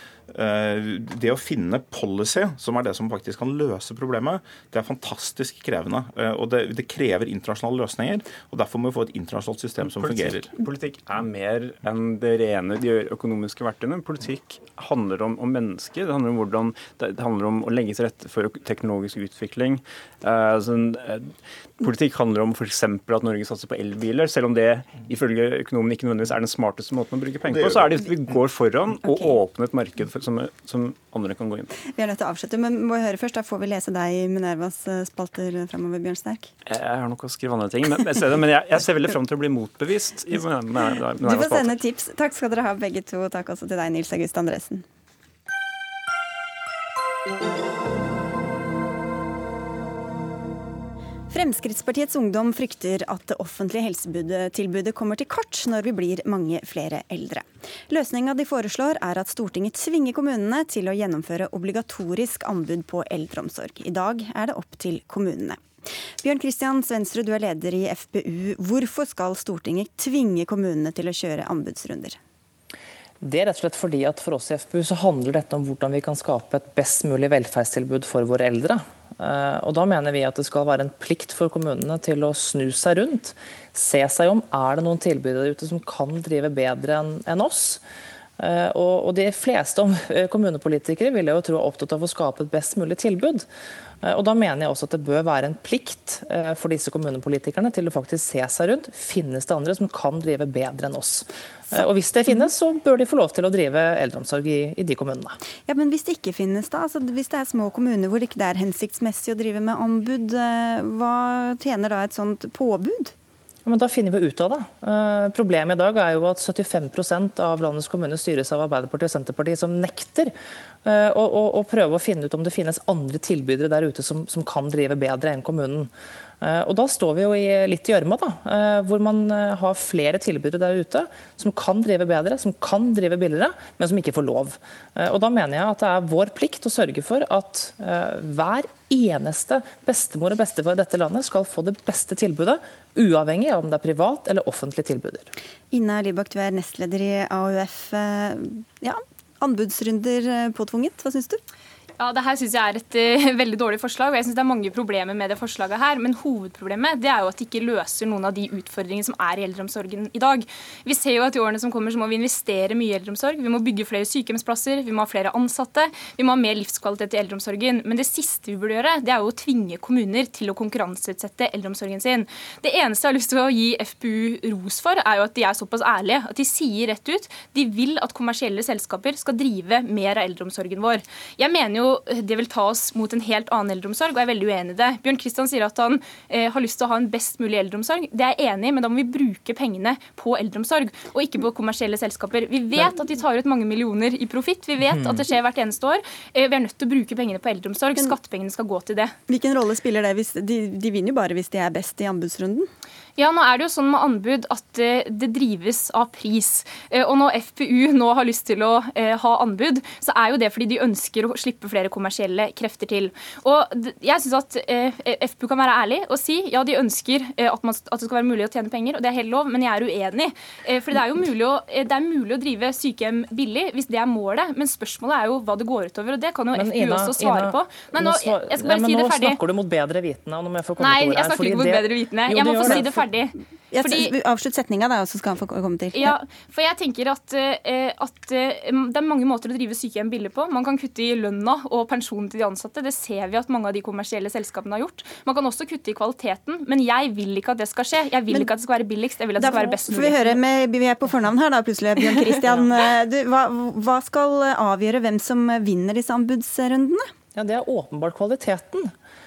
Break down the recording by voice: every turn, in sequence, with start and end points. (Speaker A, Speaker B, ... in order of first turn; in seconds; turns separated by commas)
Speaker A: 0.3-10.6, Speaker B: 9.8-31.7, Speaker C: 31.8-36.5, Speaker B: 36.7-41.8, Speaker C: 41.2-44.9, Speaker C: 51.3-65.6, Speaker C: 66.2-72.2, Speaker D: 73.2-87.8, Speaker D: 88.4-93.5, Speaker D: 94.0-105.4, Speaker C: 105.7-113.1, Speaker D: 113.7-120.3, Speaker D: 120.8-125.9, Speaker D: 126.4-145.3, Speaker C: 145.7-151.4, Speaker E: 152.0-199.2, Speaker C: 199.3-202.7, Speaker E: 203.2-229.4, Speaker D: 226.5-233.1, Speaker E: 230.8-234.1, Speaker C: 233.7-236.2, Speaker E: 235.9-250.4, Speaker C: 249.4-257.1, Speaker D: 257.4-258.9